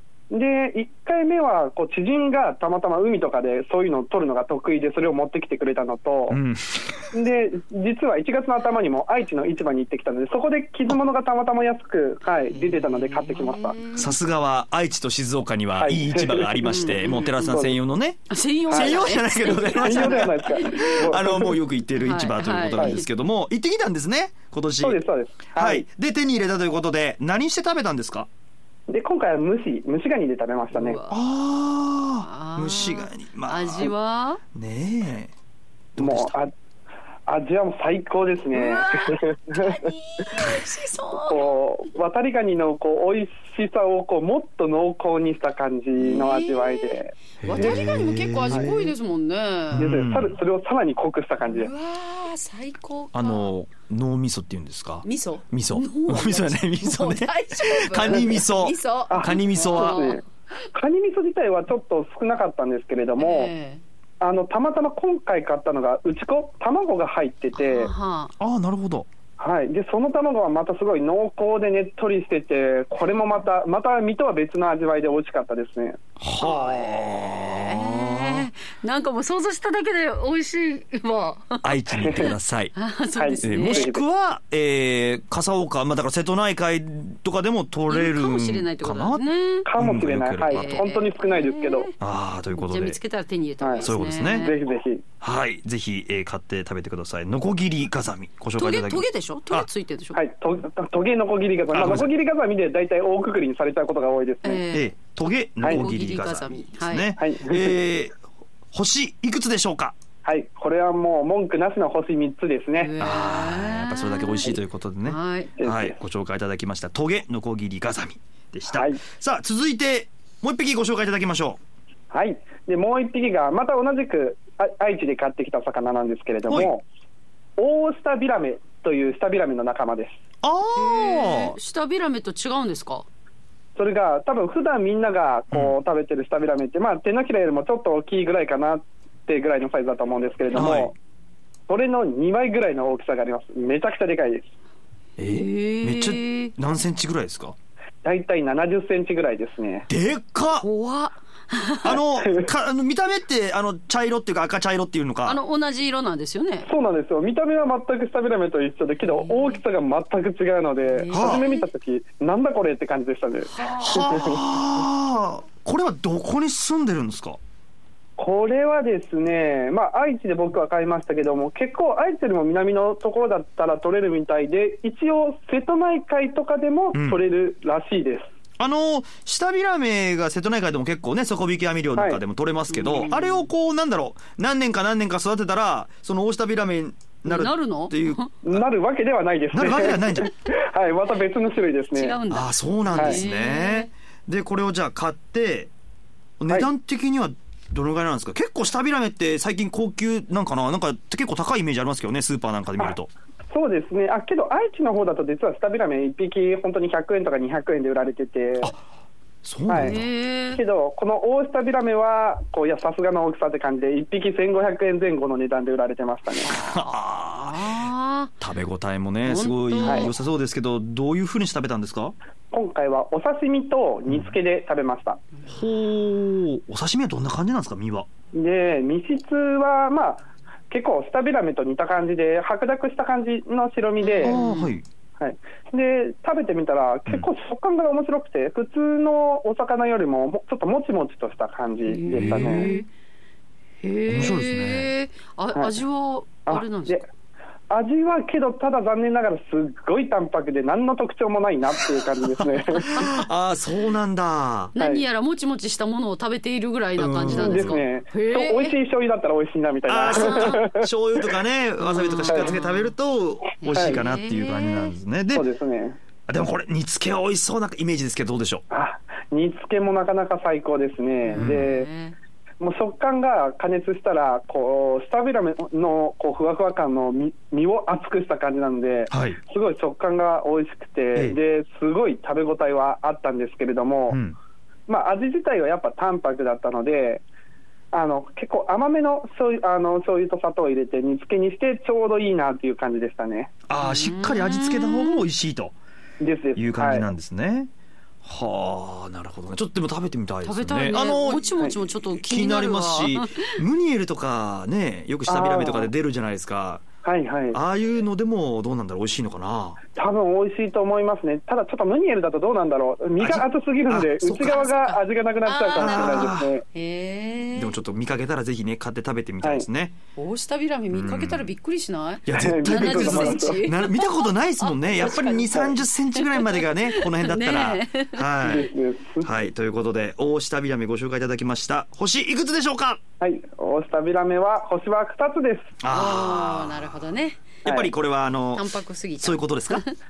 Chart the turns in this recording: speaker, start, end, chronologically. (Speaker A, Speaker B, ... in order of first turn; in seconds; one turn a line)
Speaker A: 0.3-6.4
Speaker B: 6.3-7.1
Speaker A: 7.1-13.8
Speaker C: 12.5-14.1
Speaker B: 13.9-25.0
Speaker A: 15.8-17.8
Speaker C: 16.7-17.4
Speaker C: 18.3-21.2
Speaker A: 18.7-19.1
Speaker A: 19.8-21.6
Speaker C: 22.0-23.0
Speaker A: 24.8-25.9
Speaker B: 25.5-28.3
Speaker A: 28.9-31.0
Speaker C: 30.7-31.2
Speaker B: 31.1-33.9
Speaker C: 32.2-34.4
Speaker B: 34.5-35.3
Speaker B: 36.0-36.3
Speaker A: 36.0-36.5
Speaker A: 37.3-39.8
Speaker C: 38.5-41.5
Speaker A: 41.3-47.8
Speaker C: 46.0-50.0
Speaker B: 47.4-48.9
Speaker A: 48.5-48.8
Speaker B: 49.7-50.4
Speaker A: 49.7-51.7
Speaker C: 51.4-53.5
Speaker B: 53.1-60.0
Speaker C: 55.0-60.2
Speaker A: 59.1-63.5
Speaker C: 63.2-63.8
Speaker A: 64.2-67.9
Speaker C: 67.6-68.3
Speaker B: 68.4-69.1
Speaker A: 69.4-76.0
Speaker B: 76.2-78.5
Speaker C: 76.4-83.9
Speaker B: 81.6-82.7
Speaker A: 82.0-82.3
Speaker A: 83.2-84.0
Speaker B: 83.4-89.2
Speaker C: 87.9-89.7
Speaker A: 89.7-91.9
Speaker B: 89.8-90.8
Speaker C: 90.4-92.0
Speaker B: 92.0-93.0
Speaker C: 92.5-94.6
Speaker A: 93.6-95.0
Speaker B: 93.8-94.5
Speaker B: 95.2-99.7
Speaker C: 98.6-100.2
Speaker A: 100.1-104.7
Speaker B: 101.7-102.1
Speaker C: 104.4-104.9
Speaker B: 104.7-108.2
Speaker C: 105.6-107.1
Speaker A: 105.6-105.9
Speaker A: 107.2-107.8
Speaker B: 108.7-110.0
Speaker A: 110.2-112.9
Speaker C: 112.8-115.5
Speaker B: 113.0-121.6
Speaker A: 115.6-116.0
Speaker A: 118.7-119.0
Speaker A: 122.1-126.8
Speaker A: 127.6-130.2
Speaker B: 130.4-131.6
Speaker C: 130.8-133.1
Speaker A: 133.8-140.9
Speaker B: 140.5-140.9
Speaker A: 141.7-144.5
Speaker B: 145.2-147.6
Speaker C: 145.3-146.5
Speaker A: 148.0-149.9
Speaker B: 149.9-150.7
Speaker C: 150.6-152.0
Speaker B: 151.8-155.4
Speaker A: 151.9-152.5
Speaker C: 155.2-156.7
Speaker A: 156.7-164.4
Speaker C: 159.1-159.6
Speaker C: 160.8-161.7
Speaker B: 161.1-161.4
Speaker C: 163.6-163.8
Speaker B: 163.6-167.4
Speaker A: 168.2-178.3
Speaker B: 176.9-177.2
Speaker B: 178.6-188.7
Speaker A: 182.0-182.2
Speaker C: 182.7-183.5
Speaker C: 187.3-188.3
Speaker A: 188.4-192.2
Speaker B: 189.5-190.3
Speaker C: 191.9-193.9
Speaker B: 192.3-195.7
Speaker A: 192.9-193.2
Speaker B: 196.4-203.1
Speaker A: 203.5-208.7
Speaker B: 209.4-210.0
Speaker A: 209.7-210.0
Speaker C: 209.8-210.6
Speaker A: 210.5-216.5
Speaker C: 216.4-218.3
Speaker B: 216.5-222.1
Speaker C: 219.2-220.1
Speaker A: 219.8-220.1
Speaker A: 222.5-225.2
Speaker B: 225.5-228.1
Speaker A: 228.3-234.4
Speaker C: 234.0-234.8
Speaker B: 234.2-234.8
Speaker A: 235.2-242.7
Speaker C: 241.9-242.9
Speaker B: 242.1-242.8
Speaker C: 243.8-247.0
Speaker B: 244.1-244.9
Speaker A: 246.5-247.1
Speaker A: 247.7-253.1
Speaker B: 252.0-254.7
Speaker C: 253.0-253.2
Speaker C: 254.7-258.8
Speaker A: 254.8-255.0
Speaker B: 257.0-257.8
Speaker A: 257.3-260.9
Speaker B: 259.9-265.5
Speaker C: 260.1-260.6
Speaker C: 261.8-262.9
Speaker A: 262.3-262.6
Speaker C: 263.6-264.9
Speaker A: 263.8-264.0
Speaker A: 265.3-266.0
Speaker B: 266.3-268.6
Speaker A: 268.7-271.9
Speaker C: 271.2-272.2
Speaker B: 271.4-271.7
Speaker A: 272.6-284.2
Speaker B: 279.1-279.4
Speaker B: 284.1-284.4
Speaker A: 284.9-287.2
Speaker A: 287.9-293.5
Speaker B: 293.7-295.8
Speaker C: 293.7-295.3
Speaker A: 296.2-297.1
Speaker B: 296.6-297.7
Speaker B: 298.2-301.5
Speaker C: 300.4-303.6
Speaker B: 302.0-306.9
Speaker A: 305.3-305.9
Speaker A: 307.0-307.6
Speaker B: 307.5-309.8
Speaker A: 310.0-316.6
Speaker B: 313.2-314.6
Speaker C: 314.1-317.8
Speaker B: 315.8-316.6
Speaker B: 317.5-319.9
Speaker C: 320.2-328.7
Speaker B: 320.9-321.5
Speaker B: 322.3-328.7
Speaker A: 322.3-323.7
Speaker A: 328.4-329.3
Speaker B: 329.2-333.0
Speaker A: 333.2-335.7
Speaker B: 335.8-337.0
Speaker C: 335.9-337.6
Speaker B: 337.6-339.8
Speaker A: 337.6-337.9
Speaker C: 338.6-339.9